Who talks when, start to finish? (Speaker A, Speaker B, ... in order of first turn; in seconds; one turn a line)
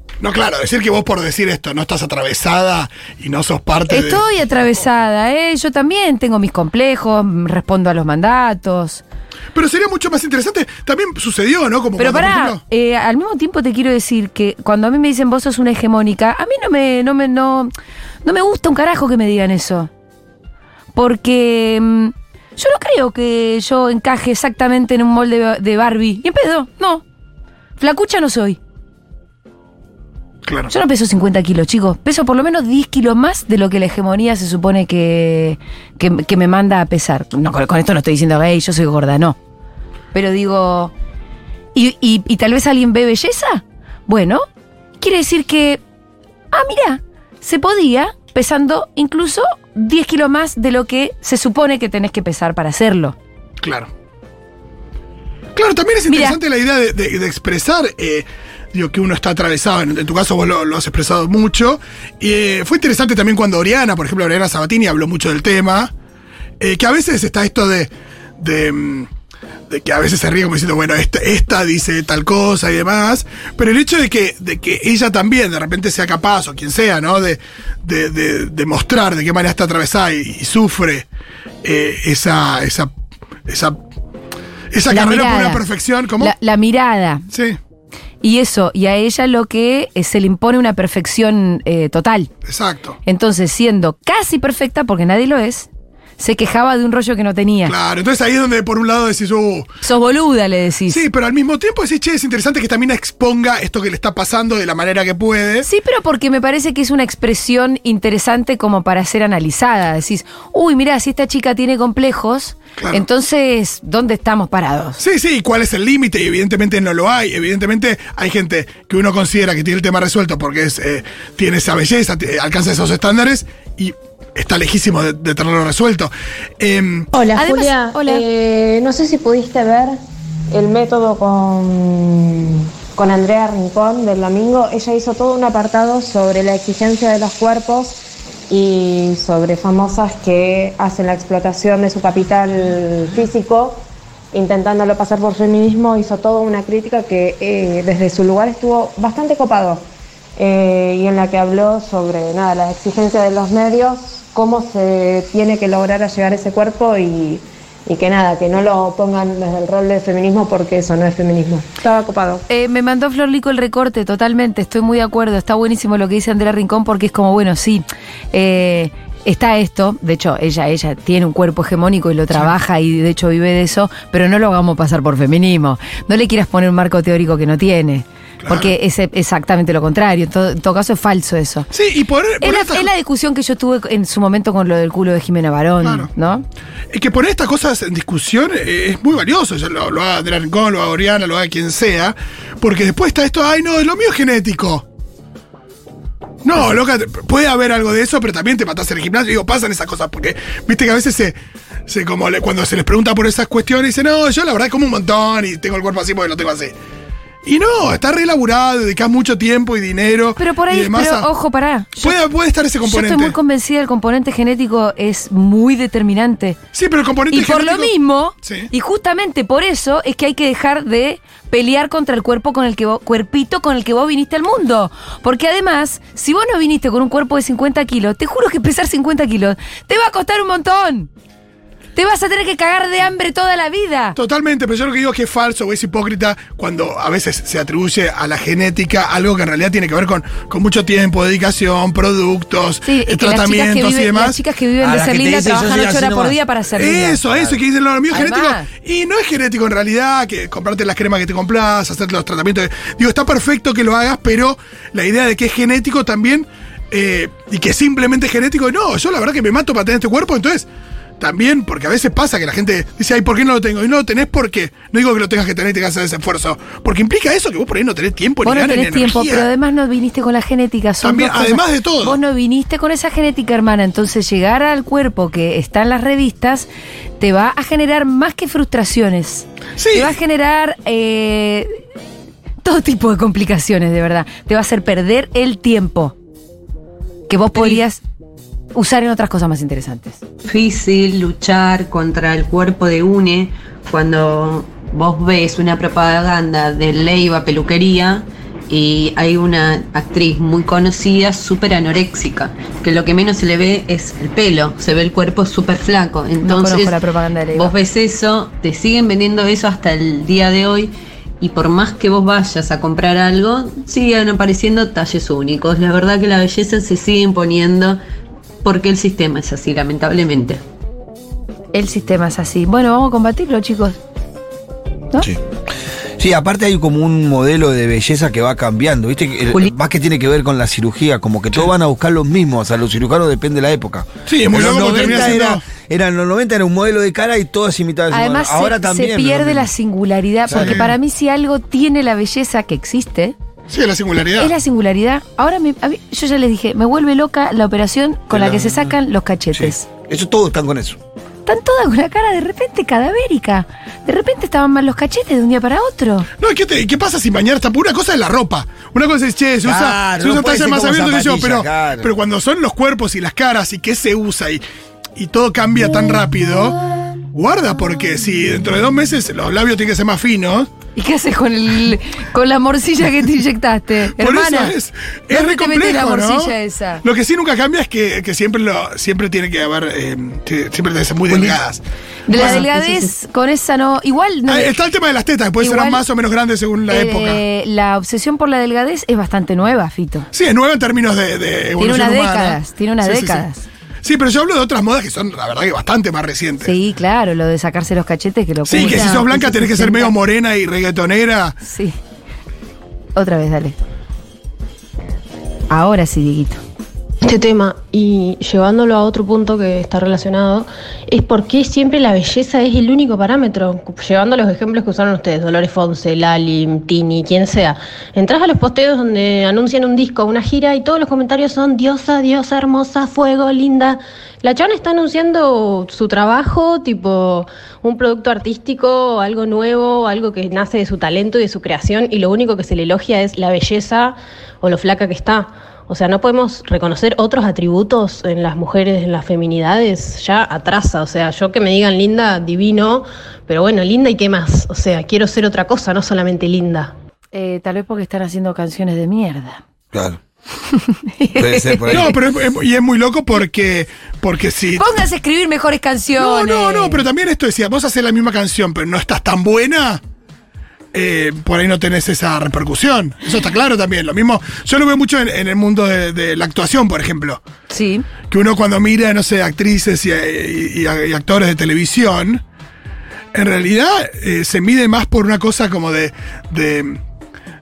Speaker A: 0.2-4.3
Speaker B: 3.9-9.0
Speaker A: 9.6-12.6
Speaker B: 12.0-17.7
Speaker B: 18.2-19.9
Speaker B: 20.9-27.0
Speaker B: 27.8-28.6
Speaker A: 30.5-30.7
Speaker B: 30.7-39.4
Speaker B: 40.1-40.9
Speaker B: 41.8-44.4
Speaker B: 45.0-45.8
Speaker B: 46.5-53.2
Speaker A: 53.6-53.9
Speaker A: 55.6-65.9
Speaker B: 56.1-56.4
Speaker A: 66.6-69.1
Speaker A: 69.7-81.1
Speaker A: 81.6-82.9
Speaker A: 83.5-83.8
Speaker A: 84.7-86.3
Speaker B: 84.9-85.7
Speaker B: 86.2-87.3
Speaker A: 87.3-87.6
Speaker B: 88.2-92.3
Speaker A: 92.5-93.0
Speaker B: 93.1-95.7
Speaker B: 96.2-97.8
Speaker A: 97.7-99.7
Speaker B: 99.8-101.0
Speaker A: 100.9-105.7
Speaker B: 105.6-115.0
Speaker A: 112.8-113.0
Speaker A: 115.0-127.2
Speaker C: 127.2-130.0
Speaker B: 127.3-128.2
Speaker C: 130.5-149.8
Speaker C: 150.4-162.4
Speaker B: 162.5-181.7
Speaker A: 178.4-178.7
Speaker A: 181.7-182.9
Speaker B: 182.4-186.4
Speaker A: 185.8-186.1
Speaker A: 186.9-194.8
Speaker A: 196.4-201.4
Speaker A: 201.9-206.8
Speaker A: 207.4-211.3
Speaker B: 210.4-212.2
Speaker A: 211.9-213.4
Speaker B: 212.8-216.6
Speaker A: 216.7-217.9
Speaker B: 217.3-231.1
Speaker A: 218.4-218.7
Speaker B: 232.0-234.2
Speaker A: 234.2-244.4
Speaker B: 242.8-247.2
Speaker D: 244.8-246.4
Speaker A: 246.8-260.7
Speaker D: 247.2-247.6
Speaker B: 248.1-248.7
Speaker A: 261.2-269.5
Speaker B: 268.4-276.7
Speaker A: 271.0-272.2
Speaker B: 277.2-281.7
Speaker A: 279.8-280.1
Speaker B: 282.6-286.1
Speaker B: 287.3-288.0
Speaker B: 288.8-290.2
Speaker E: 290.4-307.0
Speaker B: 306.4-307.7
Speaker E: 307.6-318.0
Speaker E: 318.6-320.6
Speaker B: 321.7-324.0
Speaker D: 326.2-339.7
Speaker A: 334.3-335.6
Speaker B: 338.1-343.4
Speaker D: 340.5-340.9
Speaker A: 340.5-340.9
Speaker A: 343.7-344.5
Speaker B: 344.4-349.9
Speaker D: 348.3-348.9
Speaker D: 349.5-351.0
Speaker B: 351.5-356.3
Speaker A: 356.4-364.6
Speaker D: 359.6-362.1
Speaker A: 365.2-366.8
Speaker A: 367.3-370.7
Speaker B: 371.0-374.8
Speaker A: 374.1-382.7
Speaker B: 375.3-377.0
Speaker B: 382.3-384.7
Speaker A: 384.5-387.4
Speaker B: 385.6-386.0
Speaker B: 386.9-390.3
Speaker A: 390.3-393.5
Speaker B: 391.8-393.6
Speaker A: 394.0-396.8
Speaker B: 396.6-400.1
Speaker A: 398.7-401.6
Speaker B: 401.6-402.0
Speaker B: 403.1-403.8
Speaker B: 405.7-406.6
Speaker F: 407.2-446.9
Speaker B: 447.3-449.6
Speaker D: 449.9-450.2
Speaker B: 450.7-452.1
Speaker D: 451.4-452.1
Speaker A: 451.9-454.9
Speaker B: 454.8-457.1
Speaker A: 456.2-460.0
Speaker A: 460.9-467.4
Speaker B: 467.7-468.1
Speaker A: 468.3-472.4
Speaker A: 473.3-477.0